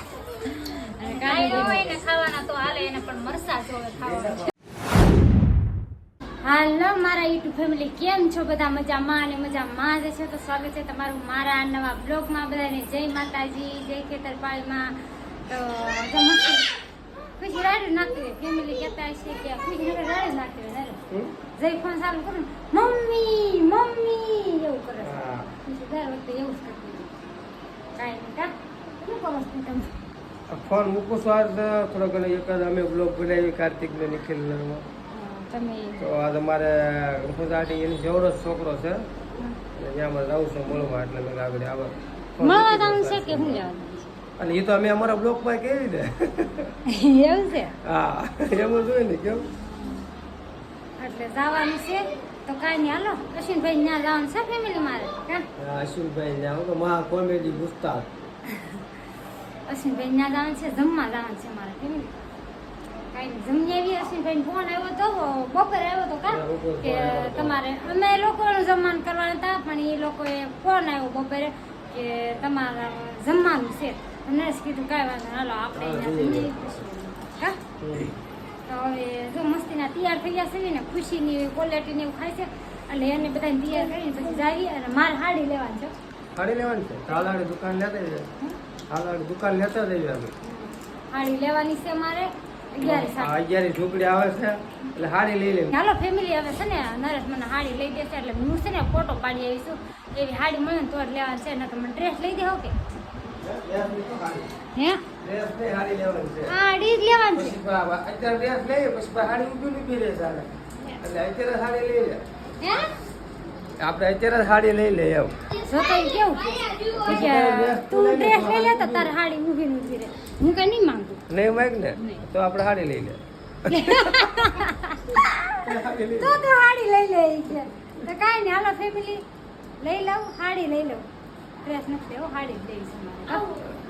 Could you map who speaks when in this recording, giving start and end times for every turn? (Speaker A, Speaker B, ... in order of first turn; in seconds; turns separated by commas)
Speaker A: 0.4-2.0, Speaker B: 1.0-4.5, Speaker A: 6.4-14.9, Speaker A: 15.5-16.7, Speaker A: 17.4-21.0, Speaker A: 21.6-27.1, Speaker C: 25.0-25.5, Speaker A: 28.0-28.5, Speaker A: 29.0-29.9, Speaker C: 30.5-34.8, Speaker A: 35.1-36.1, Speaker C: 36.0-39.1, Speaker C: 39.8-43.6, Speaker A: 42.4-44.1, Speaker C: 44.4-46.7, Speaker A: 46.9-47.8, Speaker C: 47.8-49.5, Speaker A: 49.7-50.1, Speaker A: 51.0-55.5, Speaker C: 55.6-58.1, Speaker A: 58.5-58.8, Speaker A: 59.7-62.1, Speaker A: 63.1-77.6, Speaker C: 66.3-67.6, Speaker C: 75.7-76.7, Speaker C: 77.8-78.1, Speaker A: 78.7-85.9, Speaker C: 86.4-88.3, Speaker C: 88.9-90.3, Speaker A: 90.5-93.3, Speaker C: 92.8-95.8, Speaker A: 95.7-102.8, Speaker C: 103.3-104.5, Speaker A: 104.8-105.0, Speaker C: 105.2-106.5, Speaker A: 106.5-107.6, Speaker C: 107.3-112.2, Speaker A: 112.6-112.9, Speaker C: 113.8-115.3, Speaker A: 115.6-121.2, Speaker B: 115.7-117.2, Speaker C: 117.0-119.1, Speaker C: 121.3-124.4, Speaker A: 123.7-125.7, Speaker C: 125.6-126.5, Speaker A: 126.2-129.2, Speaker A: 129.8-131.0, Speaker A: 131.6-133.5, Speaker B: 133.3-133.6